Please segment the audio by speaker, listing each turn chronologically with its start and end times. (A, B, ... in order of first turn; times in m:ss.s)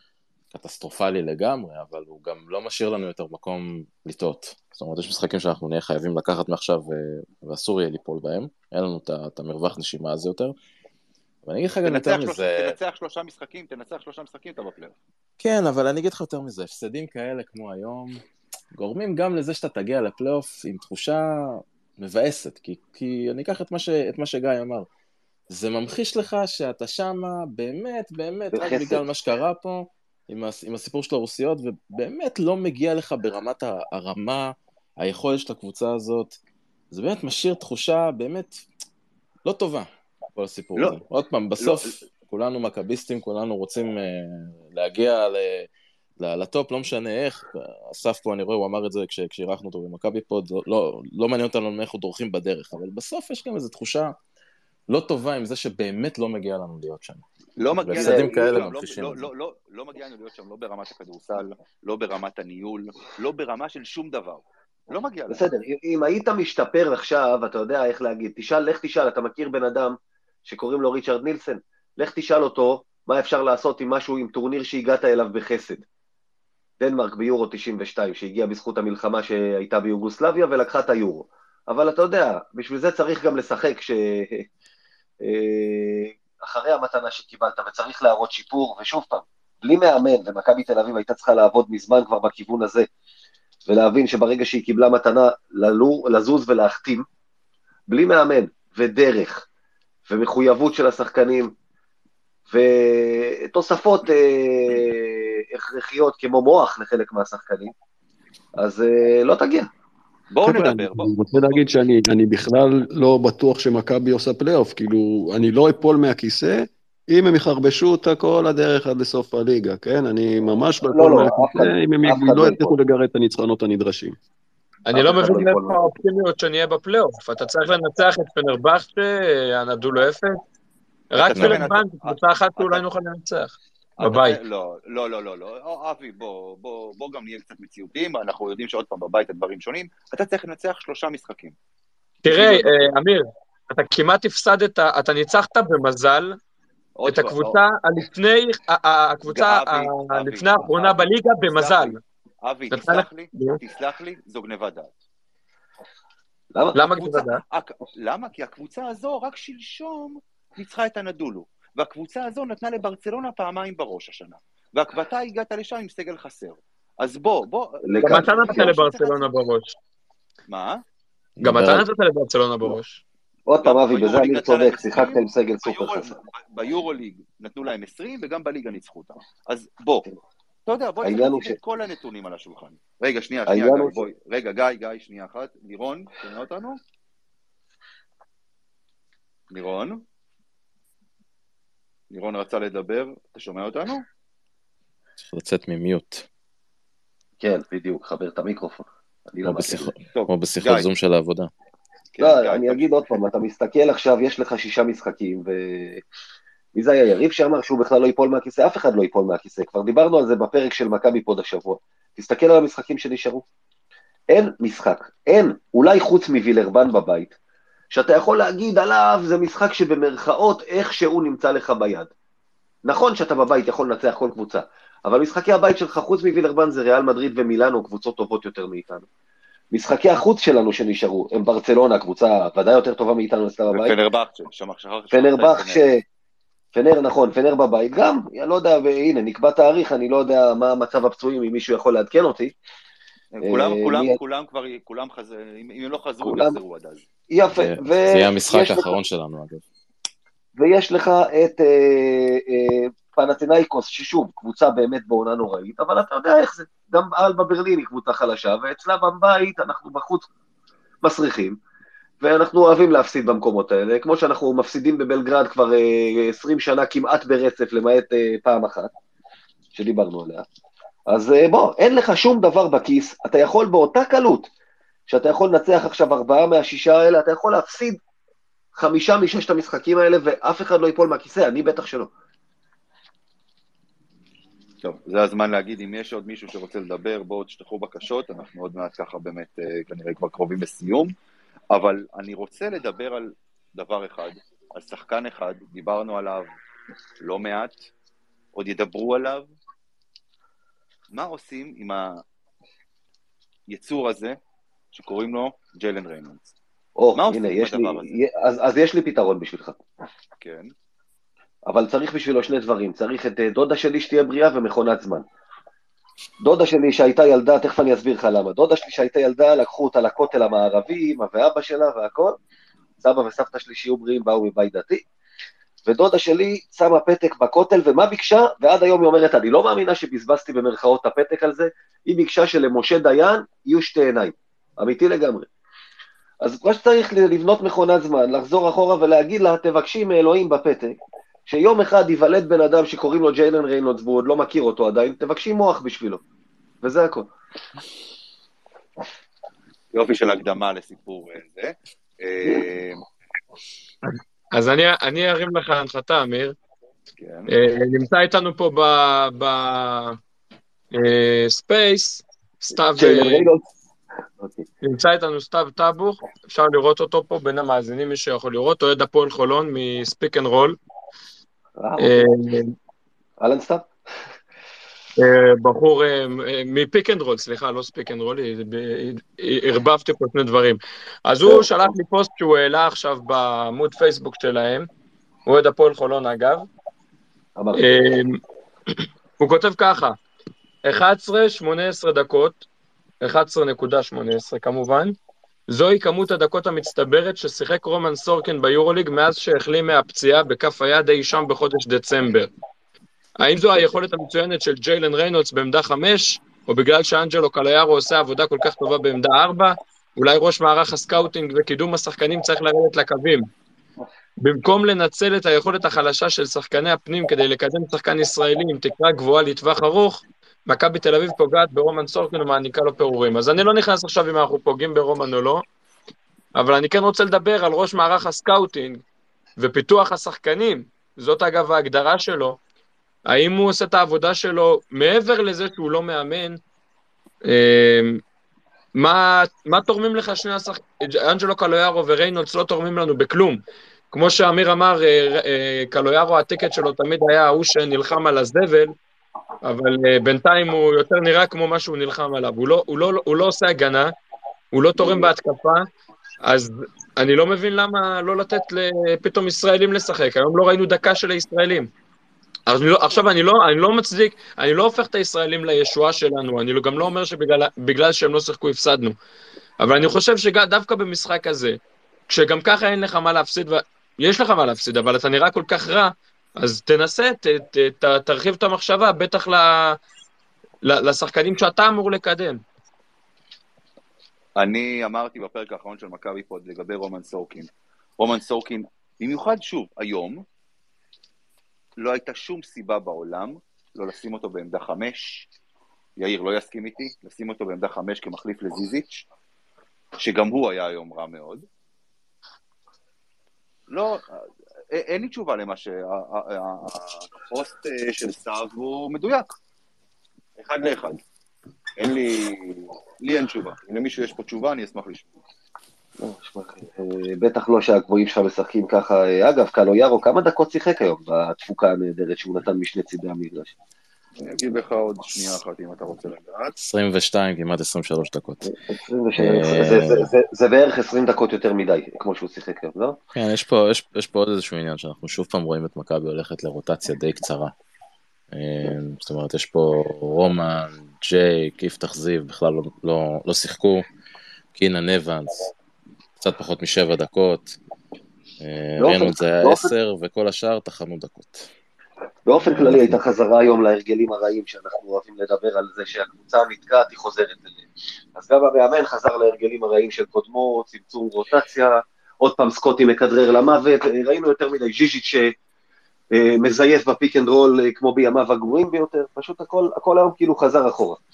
0:00.5-0:10.6 A
0:11.4-0:12.8 A
0:11.8-0:15.0 B
0:15.4-0:18.2 A
0:18.7-0:24.9 A
0:25.5-0:36.4 A
0:28.5-0:29.0 C
0:36.9-0:38.6 A
0:39.4-0:54.2 A
0:41.6-0:41.9 B
0:54.9-0:57.2 A
0:57.6-1:05.5 B
0:57.8-0:59.3 A
0:58.0-0:58.5 C
1:05.3-1:15.8 C
1:16.8-1:24.5 C
1:25.2-1:32.9 C
1:33.7-1:37.1 C
1:37.9-1:39.4 C
1:40.1-1:41.5 C
1:42.5-1:47.7 C
1:48.6-1:49.7 C
1:50.3-1:51.8 B
1:50.4-2:04.2 D
2:00.9-2:02.8 C
2:04.9-2:10.4 E
2:04.9-2:06.0 C
2:11.1-2:14.4 E
2:11.2-2:12.8 B
2:11.4-2:11.7 A
2:14.0-2:21.6 B
2:22.2-2:26.4 E
2:22.3-2:22.9 B
2:27.0-2:27.6 B
2:27.1-2:32.0 E
2:29.3-2:35.0 B
2:32.7-2:33.6 E
2:36.6-2:36.8 C
2:36.7-2:37.4 E
2:37.0-2:49.3 B
2:47.8-2:48.7 C
2:48.0-2:49.8 E
2:50.5-2:50.8 B
2:51.4-2:51.8 A
2:51.4-2:53.0 E
2:53.5-2:56.1 C
2:53.6-3:00.1 B
3:00.7-3:06.8 B
3:01.0-3:01.6 C
3:03.5-3:04.1 C
3:09.5-3:10.0 B
3:12.1-3:14.1 B
3:15.2-3:16.3 A
3:17.4-3:19.9 C
3:19.4-3:21.5 A
3:20.1-3:20.9 B
3:22.1-3:22.9 B
3:22.2-3:26.0 C
3:26.8-3:33.4 C
3:34.3-3:37.3 C
3:37.9-3:42.1 C
3:42.8-3:49.1 C
3:49.7-3:54.0 C
3:53.7-3:55.8 B
3:55.1-3:56.0 C
3:56.8-4:02.6 C
4:03.3-4:07.0 B
4:03.4-4:04.2 C
4:06.2-4:06.6 C
4:07.3-4:08.9 C
4:07.5-4:09.6 A
4:10.6-4:20.3 C
4:21.0-4:21.6 C
4:22.2-4:28.9 C
4:29.8-4:30.4 C
4:31.1-4:34.5 C
4:35.1-4:38.0 C
4:38.8-4:42.1 C
4:44.8-4:51.1 B
4:51.7-4:56.6 B
4:57.2-4:57.9 B
4:58.5-4:59.5 B
5:01.1-5:02.2 B
5:03.7-5:04.4 B
5:04.9-5:06.5 B
5:07.0-5:09.8 C
5:07.2-5:08.2 B
5:10.4-5:10.7 B
5:11.7-5:15.2 C
5:16.4-5:22.4 C
5:23.0-5:25.0 C
5:25.9-5:35.5 C
5:36.4-5:46.2 C
5:46.8-5:47.3 C
5:49.9-5:53.0 B
5:54.6-5:56.6 E
5:57.2-5:57.5 B
5:57.5-6:00.2 E
6:00.9-6:03.5 E
6:03.0-6:03.6 C
6:04.4-6:04.7 C
6:04.8-6:10.8 E
6:11.8-6:12.3 C
6:12.0-6:12.8 E
6:13.4-6:13.9 C
6:15.2-6:24.9 E
6:21.4-6:21.9 C
6:25.5-6:26.7 E
6:27.6-6:28.2 C
6:27.8-6:28.4 E
6:29.4-6:30.2 E
6:30.8-6:32.6 E
6:33.2-6:35.2 E
6:35.7-6:42.5 E
6:43.4-6:53.5 E
6:54.4-7:05.6 E
7:06.6-7:09.0 E
7:09.6-7:12.6 E
7:13.3-7:16.6 E
7:17.5-7:18.2 E
7:19.0-7:29.0 E
7:29.6-7:34.1 E
7:34.7-7:35.9 E
7:35.0-7:35.3 C
7:36.4-7:41.9 E
7:42.7-7:49.2 E
7:49.8-8:00.0 E
8:00.8-8:02.6 E
8:04.6-8:10.4 B
8:12.0-8:15.4 B
8:16.2-8:19.3 B
8:20.2-8:21.7 B
8:23.9-8:29.5 B
8:30.6-8:31.2 B
8:32.0-8:35.4 B
8:36.2-8:43.7 C
8:44.4-8:46.8 B
8:46.8-8:48.7 A
8:48.6-8:53.2 C
8:49.4-8:50.3 A
8:53.4-8:57.7 A
8:58.5-9:04.1 A
9:04.8-9:05.7 A
9:06.4-9:07.8 A
9:08.6-9:11.7 A
9:09.0-9:09.9 C
9:12.5-9:25.5 C
9:12.6-9:13.2 A
9:26.3-9:31.2 C